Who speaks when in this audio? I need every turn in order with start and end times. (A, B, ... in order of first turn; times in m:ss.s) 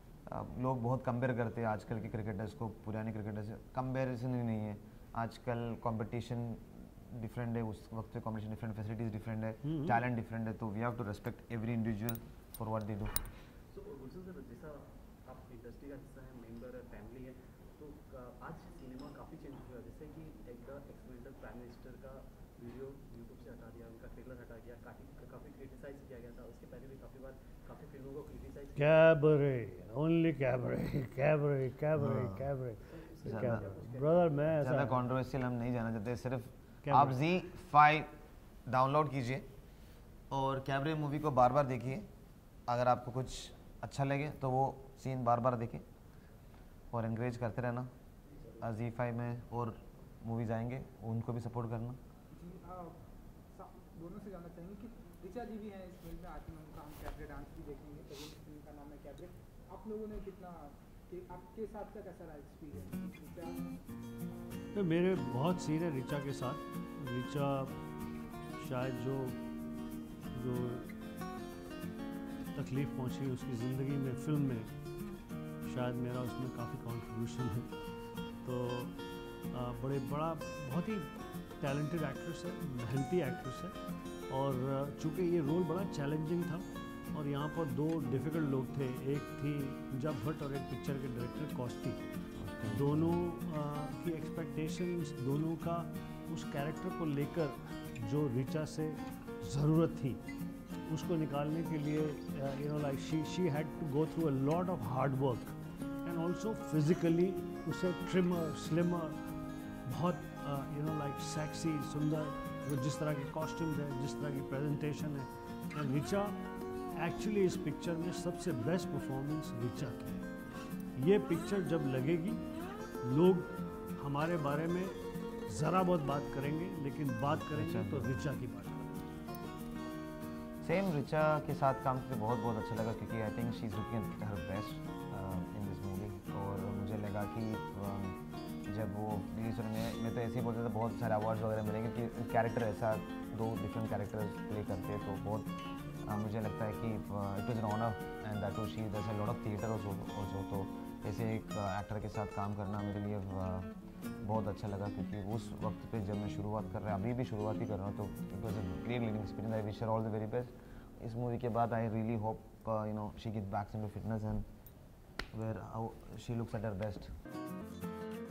0:00.3-0:13.2 A
0:09.6-0:10.0 B
0:13.7-0:29.0 C
0:28.8-0:35.1 B
0:32.0-0:32.5 A
0:32.9-0:34.2 C
0:33.2-0:33.8 A
0:34.5-0:38.1 A
0:36.8-0:37.2 B
0:38.7-0:39.4 A
0:40.3-0:42.0 A
0:42.7-0:45.8 A
0:46.9-0:47.9 A
0:48.6-0:52.0 A
0:52.3-1:03.7 D
1:04.7-1:07.7 B
1:08.6-1:09.4 B
1:10.3-1:10.9 B
1:12.5-1:14.7 B
1:15.6-1:17.7 B
1:18.4-1:18.9 B
1:19.5-1:23.7 B
1:24.3-1:32.0 B
1:32.4-1:33.2 A
1:32.7-1:40.2 B
1:40.9-1:49.2 B
1:49.8-1:56.4 B
1:56.9-2:00.3 B
2:00.9-2:02.4 B
2:03.0-2:05.0 B
2:05.5-2:09.0 B
2:07.3-2:08.3 A
2:10.6-2:33.7 A
2:34.2-2:44.4 A
2:45.3-2:47.1 A